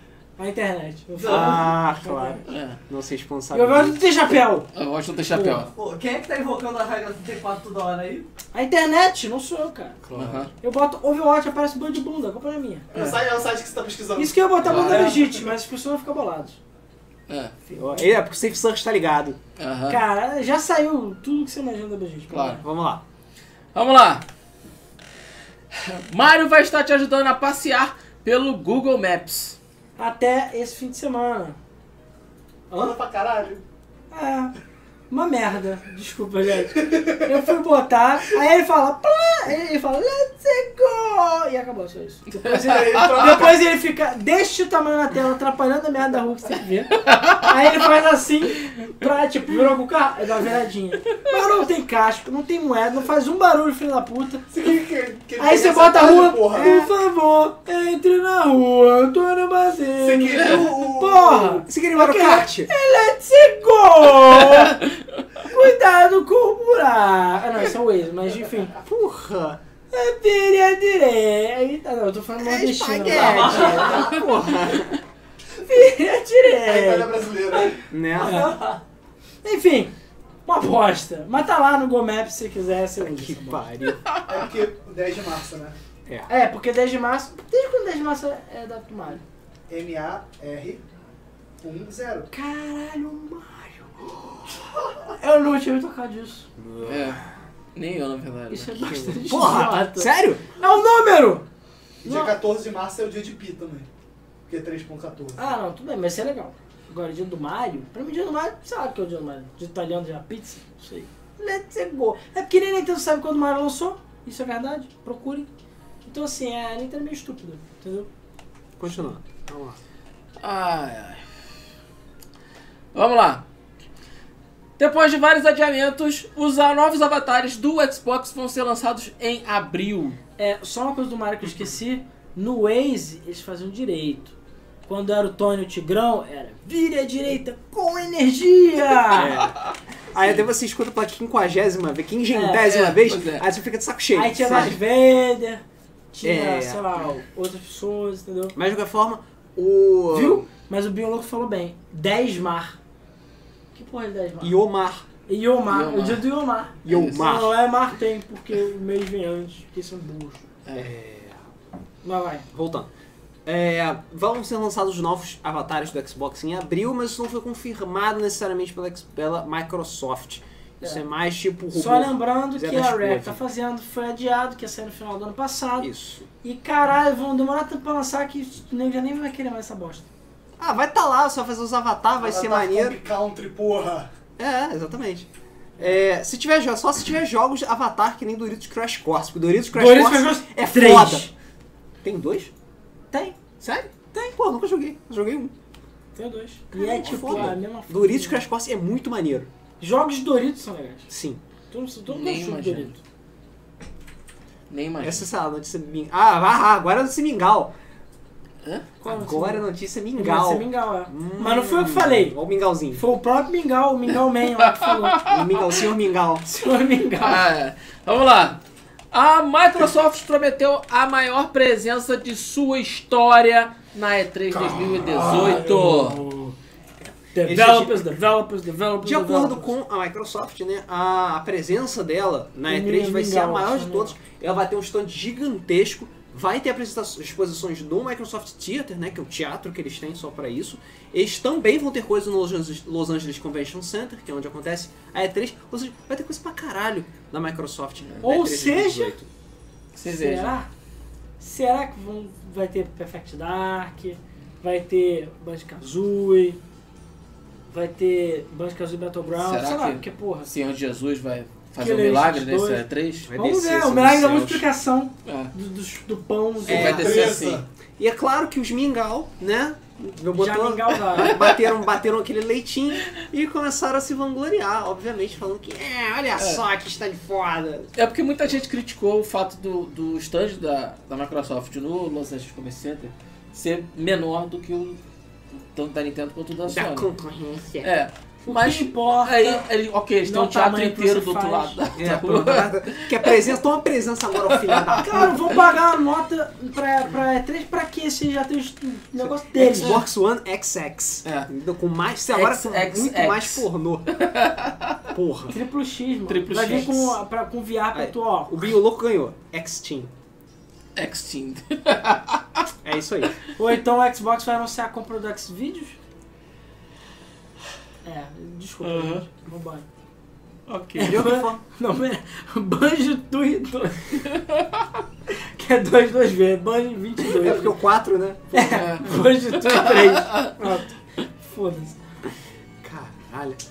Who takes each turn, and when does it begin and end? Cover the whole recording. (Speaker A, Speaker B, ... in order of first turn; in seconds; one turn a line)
Speaker A: 0.4-2.4
Speaker B: 1.1-1.7
Speaker C: 1.3-4.0
Speaker D: 2.5-2.8
Speaker A: 3.5-4.7
Speaker D: 4.7-5.7
Speaker A: 5.3-5.7
Speaker B: 5.7-8.3
Speaker A: 8.5-10.0
Speaker C: 10.0-10.5
Speaker D: 10.1-10.5
Speaker A: 10.6-12.9
Speaker E: 12.9-15.5
Speaker D: 12.9-13.2
Speaker A: 14.2-16.6
Speaker D: 14.6-15.1
Speaker D: 17.3-17.5
Speaker A: 17.7-18.2
Speaker C: 17.8-19.4
Speaker D: 19.6-20.0
Speaker A: 19.9-22.6
Speaker D: 22.3-22.6
Speaker C: 22.6-23.0
Speaker D: 23.8-24.3
Speaker D: 25.7-29.6
Speaker A: 30.0-31.6
Speaker A: 32.7-33.0
Speaker E: 32.7-33.6
Speaker A: 34.1-34.5
Speaker A: 35.1-54.5
Speaker E: 36.8-37.4
Speaker D: 42.3-43.1
Speaker E: 42.5-43.6
Speaker D: 47.0-47.5
Speaker E: 54.5-56.9
Speaker A: 55.4-64.8
Speaker C: 56.6-56.9
Speaker E: 60.0-61.7
Speaker C: 61.7-62.7
Speaker A: 65.4-68.8
Speaker C: 68.8-69.6
Speaker A: 69.9-74.2
Speaker C: 72.4-75.0
Speaker B: 73.1-74.2
Speaker A: 75.7-78.7
Speaker E: 76.5-77.8
Speaker C: 77.9-78.5
Speaker B: 78.2-78.8
Speaker A: 79.4-80.0
Speaker A: 80.5-83.7
Speaker C: 83.0-84.1
Speaker E: 84.3-85.8
Speaker A: 86.3-89.2
Speaker E: 89.7-90.8
Speaker E: 91.6-92.3
Speaker A: 92.3-96.5
Speaker C: 96.6-97.3
Speaker D: 96.8-97.2
Speaker D: 97.8-98.9
Speaker A: 98.5-101.5
Speaker C: 98.9-100.4
Speaker E: 102.0-103.9
Speaker A: 102.0-102.4
Speaker E: 104.5-105.4
Speaker A: 105.4-115.5
Speaker A: 116.0-118.1
Speaker C: 118.8-119.8
Speaker D: 120.4-121.2
Speaker D: 122.9-123.5
Speaker D: 124.8-130.2
Speaker A: 130.4-134.3
Speaker A: 134.9-139.3
Speaker C: 139.1-139.6
Speaker D: 139.2-139.4
Speaker C: 140.1-144.8
Speaker A: 142.3-142.7
Speaker D: 142.6-143.4
Speaker A: 144.1-148.6
Speaker C: 146.2-147.0
Speaker C: 148.6-150.5
Speaker A: 150.1-152.8
Speaker A: 153.7-154.6
Speaker C: 154.4-155.1
Speaker A: 155.3-160.5
Speaker D: 155.7-156.3
Speaker C: 156.8-157.6
Speaker D: 156.9-157.2
Speaker C: 160.7-161.4
Speaker A: 162.0-162.5
Speaker C: 162.5-162.9
Speaker C: 163.4-173.4
Speaker A: 171.7-175.9
Speaker C: 175.8-176.3
Speaker A: 176.4-180.1
Speaker C: 180.6-183.0
Speaker E: 182.2-184.1
Speaker C: 184.4-185.3
Speaker C: 185.8-191.3
Speaker A: 189.7-191.3
Speaker C: 192.0-192.5
Speaker A: 193.1-193.4
Speaker D: 193.6-193.9
Speaker C: 194.3-195.5
Speaker A: 196.2-198.4
Speaker C: 196.7-199.5
Speaker A: 199.8-201.1
Speaker C: 201.1-201.4
Speaker A: 201.7-203.0
Speaker D: 202.1-203.0
Speaker D: 204.7-205.3
Speaker C: 205.0-207.7
Speaker D: 208.6-208.9
Speaker A: 209.0-212.4
Speaker C: 209.0-213.1
Speaker A: 212.9-215.3
Speaker D: 214.6-215.7
Speaker C: 215.3-216.4
Speaker A: 216.4-217.5
Speaker D: 217.2-218.6
Speaker D: 219.1-226.2
Speaker A: 224.6-226.6
Speaker C: 227.0-228.2
Speaker A: 227.3-229.8
Speaker C: 229.0-249.3
Speaker A: 232.7-234.2
Speaker A: 248.2-249.2
Speaker D: 249.9-250.6
Speaker A: 250.1-250.7
Speaker A: 251.4-256.6
Speaker A: 257.7-260.5
Speaker D: 259.4-263.3
Speaker A: 261.8-267.2
Speaker C: 263.2-264.4
Speaker D: 264.0-264.6
Speaker D: 265.2-265.5
Speaker D: 266.6-267.6
Speaker C: 266.7-267.3
Speaker E: 266.7-267.6
Speaker C: 268.0-277.9
Speaker A: 270.3-271.4
Speaker D: 271.2-271.7
Speaker D: 276.4-276.6
Speaker D: 278.0-285.0
Speaker D: 285.5-287.1
Speaker C: 286.7-287.9
Speaker D: 287.7-293.5
Speaker A: 288.5-289.7
Speaker A: 290.2-291.8
Speaker C: 292.0-295.4
Speaker D: 294.5-295.3
Speaker A: 295.0-300.0
Speaker C: 299.2-304.1
Speaker D: 299.7-300.0
Speaker D: 302.3-305.0
Speaker C: 305.1-305.6
Speaker A: 305.5-308.5
Speaker D: 306.3-307.2
Speaker C: 307.9-310.1
Speaker D: 311.0-312.6
Speaker C: 312.8-313.3
Speaker A: 313.6-316.0
Speaker A: 318.1-319.9
Speaker D: 318.8-319.2
Speaker D: 320.7-321.3
Speaker A: 321.0-324.4
Speaker C: 321.0-321.6
Speaker A: 325.5-327.8
Speaker C: 327.3-328.9
Speaker A: 328.5-332.0
Speaker D: 328.7-330.5
Speaker C: 332.8-333.6